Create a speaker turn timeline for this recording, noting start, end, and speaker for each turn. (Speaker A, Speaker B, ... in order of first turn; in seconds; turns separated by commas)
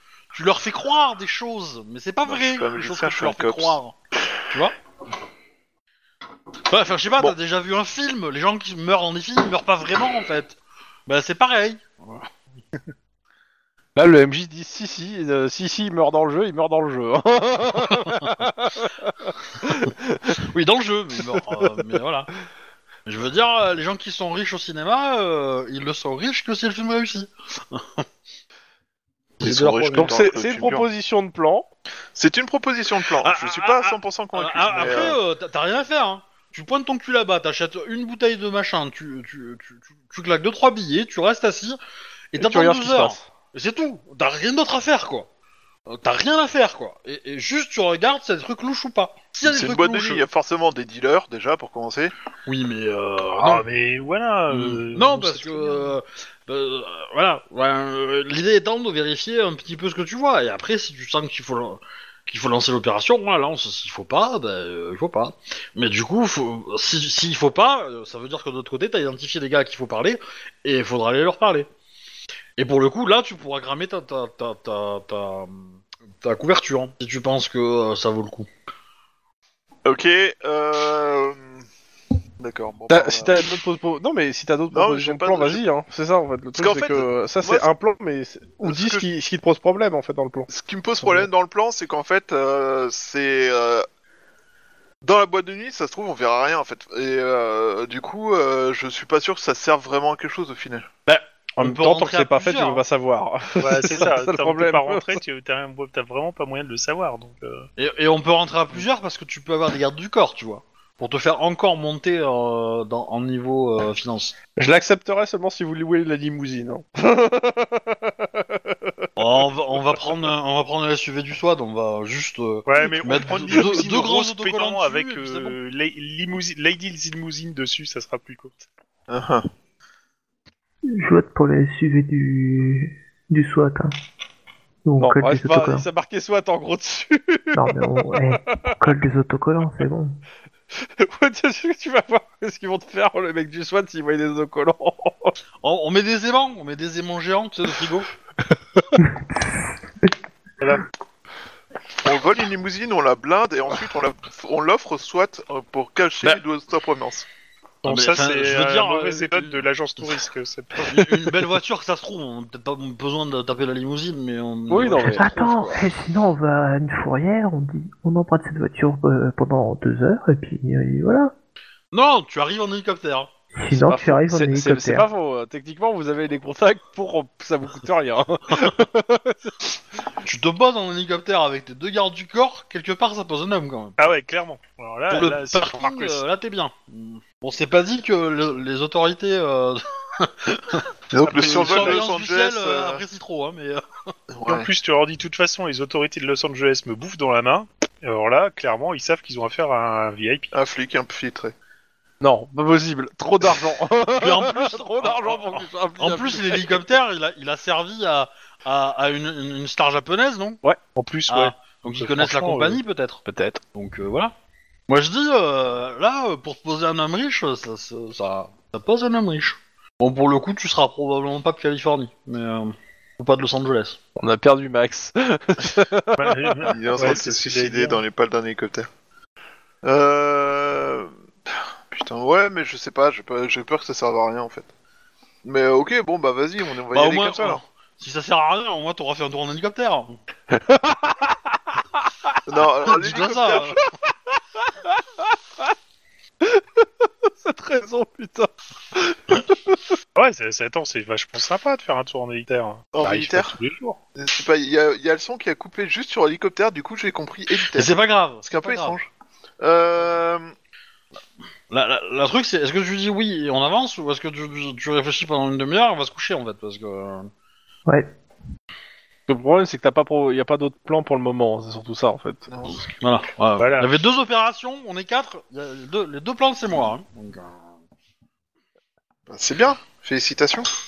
Speaker A: 0.3-3.9, Speaker B: 2.3-3.8, Speaker A: 4.5-4.8, Speaker A: 6.7-12.3, Speaker C: 13.9-20.4, Speaker A: 17.9-18.3, Speaker A: 19.8-22.3, Speaker A: 23.1-28.1, Speaker A: 29.4-30.2, Speaker B: 29.4-30.9, Speaker C: 29.9-31.7, Speaker B: 32.1-35.2, Speaker A: 33.1-41.8, Speaker A: 42.3-45.3, Speaker C: 42.4-43.3, Speaker A: 45.9-50.2, Speaker B: 49.4-52.1, Speaker A: 52.5-53.7, Speaker D: 53.4-56.0, Speaker A: 54.5-71.7, Speaker A: 72.6-78.5, Speaker B: 79.8-81.6, Speaker B: 82.4-83.5, Speaker C: 82.9-90.5, Speaker B: 84.7-85.6, Speaker B: 86.6-87.7, Speaker B: 88.6-89.0, Speaker B: 90.5-93.8, Speaker C: 91.0-91.3, Speaker B: 95.0-100.9, Speaker A: 101.1-102.8, Speaker C: 101.6-105.2, Speaker D: 103.6-107.7, Speaker A: 107.8-114.3, Speaker C: 114.6-119.1, Speaker A: 119.2-125.6, Speaker D: 122.7-128.6, Speaker B: 129.1-129.5, Speaker E: 130.9-133.9, Speaker E: 134.8-135.9, Speaker C: 135.0-138.7, Speaker E: 137.5-140.2, Speaker C: 141.0-145.3, Speaker A: 145.6-148.1, Speaker D: 150.6-150.8, Speaker B: 152.0-157.3, Speaker D: 157.8-160.9, Speaker A: 157.8-159.7, Speaker A: 160.8-165.3, Speaker C: 164.7-165.8, Speaker E: 165.0-171.3, Speaker A: 171.9-173.3, Speaker E: 173.6-175.1, Speaker C: 173.7-179.5, Speaker A: 180.2-184.0, Speaker D: 184.0-186.2, Speaker A: 185.1-194.1, Speaker B: 191.1-193.0, Speaker D: 191.3-192.1, Speaker B: 194.3-194.7, Speaker D: 194.5-200.5, Speaker B: 200.5-201.5, Speaker C: 202.2-206.9, Speaker A: 204.2-210.6, Speaker D: 210.9-212.8, Speaker A: 211.3-213.2, Speaker C: 213.2-213.6, Speaker A: 213.7-214.3, Speaker A: 214.9-224.0, Speaker C: 224.2-226.7, Speaker D: 226.2-228.0, Speaker B: 226.7-228.9, Speaker B: 229.8-231.1, Speaker B: 231.9-234.7, Speaker B: 235.4-237.6, Speaker A: 236.9-240.2, Speaker C: 240.5-241.4, Speaker B: 242.4-243.8, Speaker A: 242.8-243.8, Speaker C: 244.6-245.6, Speaker C: 246.4-249.9, Speaker D: 250.1-254.0, Speaker B: 252.9-253.6, Speaker B: 254.2-260.5, Speaker A: 257.7-259.0, Speaker A: 261.7-267.3, Speaker C: 269.3-272.5, Speaker B: 272.5-272.9, Speaker A: 272.9-277.6, Speaker D: 273.6-273.9, Speaker B: 279.3-280.7